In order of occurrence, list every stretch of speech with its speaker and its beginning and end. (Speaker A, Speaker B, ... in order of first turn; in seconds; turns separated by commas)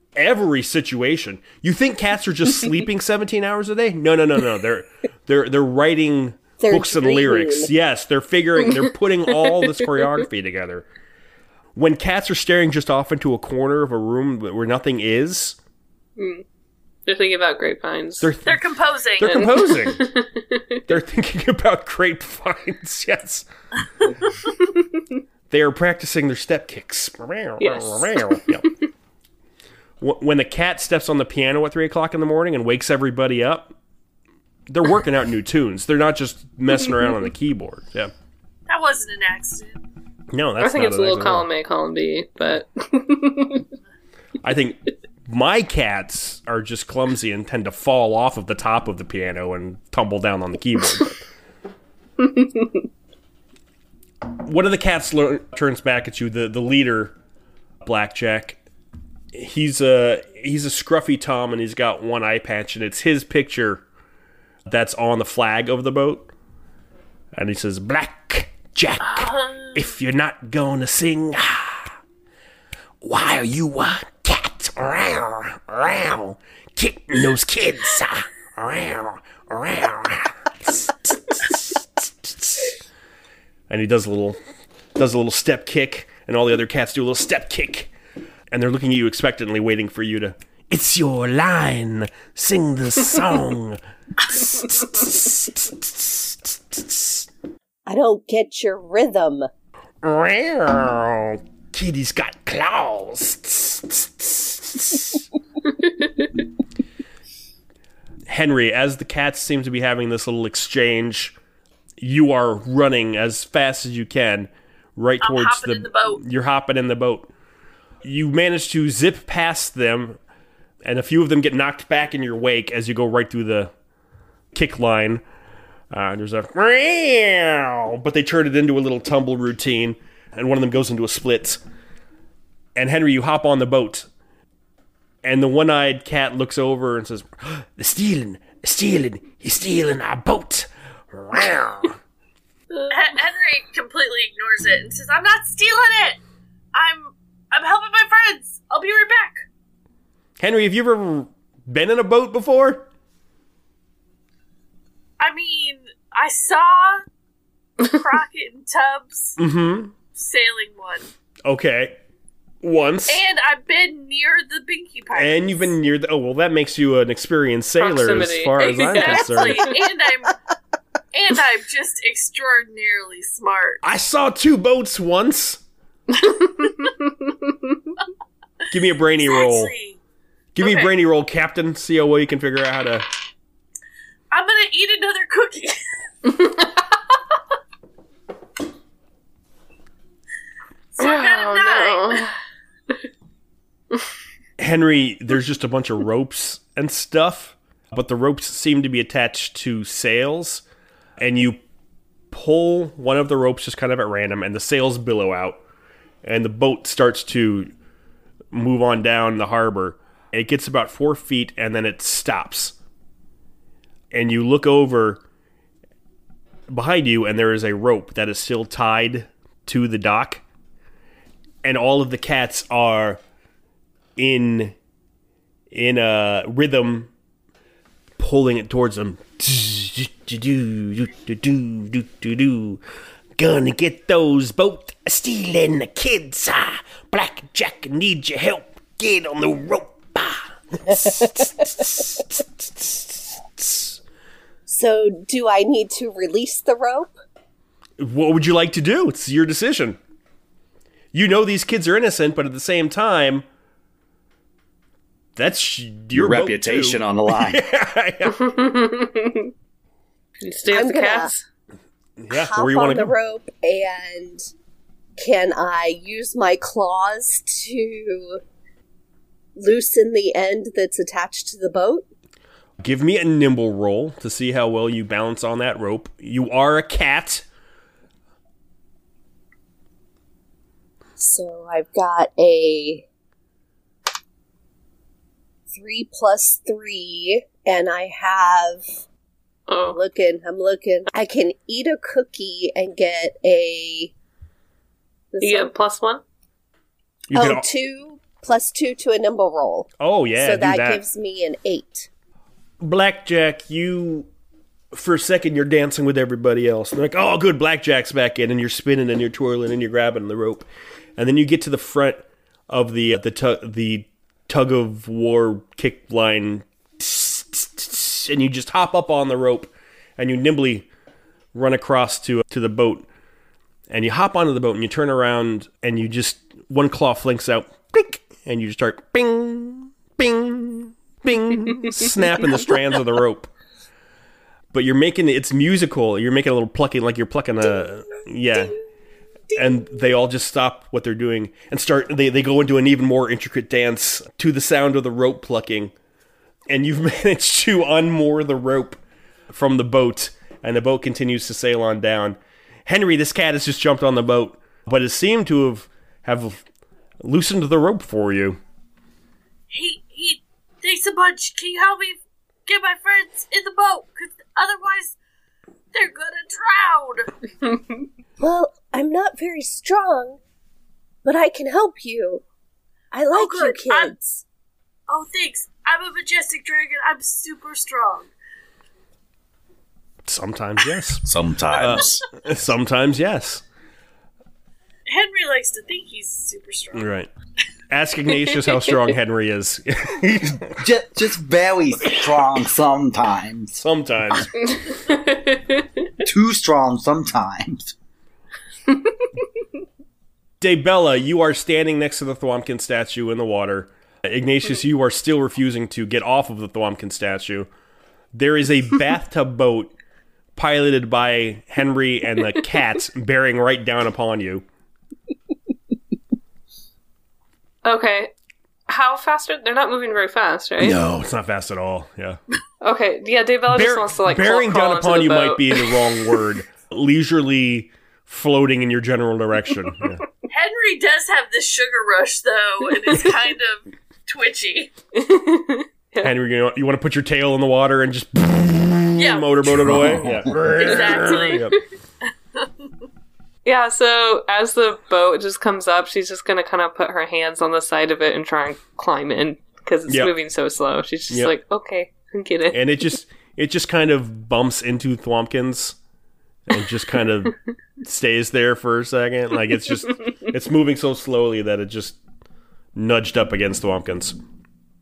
Speaker A: 0.1-10.8, Speaker B: 6.6-7.7, Speaker A: 11.8-15.6, Speaker C: 16.2-16.4, Speaker C: 17.1-18.3, Speaker A: 18.2-20.1, Speaker D: 18.4-19.4, Speaker C: 19.2-20.8, Speaker A: 20.9-23.4, Speaker A: 25.5-28.7, Speaker C: 27.6-28.5, Speaker A: 30.0-33.7, Speaker A: 34.7-38.1, Speaker D: 38.7-39.8, Speaker A: 40.3-41.5, Speaker C: 40.6-43.7, Speaker A: 44.4-51.2, Speaker C: 52.2-52.7, Speaker A: 54.3-57.1, Speaker A: 57.8-58.6, Speaker A: 59.3-63.8, Speaker A: 64.7-66.3, Speaker A: 67.3-72.0, Speaker C: 69.2-69.7, Speaker A: 73.0-82.7, Speaker A: 83.7-84.4, Speaker A: 85.0-87.9, Speaker A: 88.5-97.3, Speaker B: 97.9-99.5, Speaker A: 100.0-105.2, Speaker A: 108.3-111.3, Speaker A: 112.0-117.3, Speaker D: 115.2-116.2, Speaker A: 118.0-120.2, Speaker A: 120.8-123.7, Speaker A: 124.5-125.2, Speaker A: 125.9-131.6, Speaker A: 132.8-134.1, Speaker A: 135.2-142.0, Speaker C: 142.7-143.1, Speaker D: 142.9-146.2, Speaker D: 146.7-149.4, Speaker A: 150.4-152.8, Speaker D: 155.2-157.0, Speaker D: 157.8-159.4, Speaker A: 159.4-159.9, Speaker D: 160.1-161.1, Speaker A: 161.4-162.0, Speaker A: 162.6-163.2, Speaker D: 163.1-165.7, Speaker A: 165.1-169.7, Speaker C: 167.8-169.7, Speaker D: 168.6-170.3, Speaker D: 171.1-173.8, Speaker A: 173.8-175.6, Speaker C: 176.2-177.9, Speaker A: 178.7-179.7, Speaker D: 179.2-180.0, Speaker A: 180.6-183.1, Speaker D: 180.6-180.9, Speaker D: 184.3-185.8, Speaker C: 186.4-186.8, Speaker D: 190.9-192.3, Speaker C: 191.0-192.3, Speaker A: 194.6-200.6, Speaker A: 201.2-201.6, Speaker A: 202.3-205.6, Speaker A: 206.2-207.7, Speaker A: 208.5-212.7, Speaker A: 214.1-215.2, Speaker A: 216.7-220.4, Speaker A: 221.6-223.2, Speaker A: 224.2-224.7, Speaker A: 225.7-227.1, Speaker A: 228.2-232.8, Speaker A: 233.4-244.0, Speaker B: 244.7-247.1, Speaker A: 248.0-250.0, Speaker A: 251.1-253.4, Speaker A: 255.3-258.4, Speaker E: 256.1-257.6, Speaker C: 258.4-259.5, Speaker C: 260.4-261.4, Speaker B: 260.7-261.3, Speaker A: 262.2-263.1, Speaker B: 262.3-264.5, Speaker B: 265.2-268.4, Speaker B: 269.6-272.1, Speaker A: 272.8-277.4, Speaker B: 281.2-283.0, Speaker B: 285.7-288.9, Speaker C: 289.7-290.0, Speaker B: 289.9-294.1, Speaker B: 295.3-295.7, Speaker C: 295.4-296.2, Speaker A: 297.3-297.6, Speaker B: 297.3-302.1, Speaker A: 300.0-301.0, Speaker A: 302.8-304.3, Speaker A: 304.9-310.6, Speaker A: 311.2-320.9, Speaker A: 321.5-323.1, Speaker A: 323.9-333.5, Speaker A: 334.7-338.7, Speaker A: 339.6-345.9, Speaker A: 346.7-356.6, Speaker A: 357.2-358.6, Speaker D: 359.7-365.1, Speaker D: 365.9-367.3, Speaker C: 367.6-368.0, Speaker B: 368.4-370.4, Speaker B: 371.2-372.4, Speaker B: 373.1-374.4, Speaker D: 373.3-374.1, Speaker D: 375.1-378.3, Speaker A: 380.3-383.6, Speaker E: 381.2-382.2, Speaker D: 385.1-387.1, Speaker A: 386.9-387.3, Speaker A: 387.9-390.8, Speaker E: 390.8-393.8, Speaker A: 393.8-394.5, Speaker C: 394.6-396.0, Speaker E: 396.2-397.9, Speaker A: 400.6-407.7, Speaker A: 408.3-409.9, Speaker A: 410.6-414.6, Speaker C: 417.8-418.3, Speaker C: 418.9-421.0, Speaker A: 420.8-422.4, Speaker C: 422.8-426.4, Speaker A: 423.7-430.2, Speaker D: 430.5-434.9, Speaker C: 435.1-436.3, Speaker A: 436.2-441.7, Speaker D: 439.2-439.9, Speaker E: 439.9-440.6, Speaker D: 440.7-441.7, Speaker D: 442.6-442.9, Speaker C: 443.6-452.9, Speaker A: 450.1-450.3, Speaker A: 452.7-456.0, Speaker A: 456.7-462.2, Speaker A: 462.9-464.4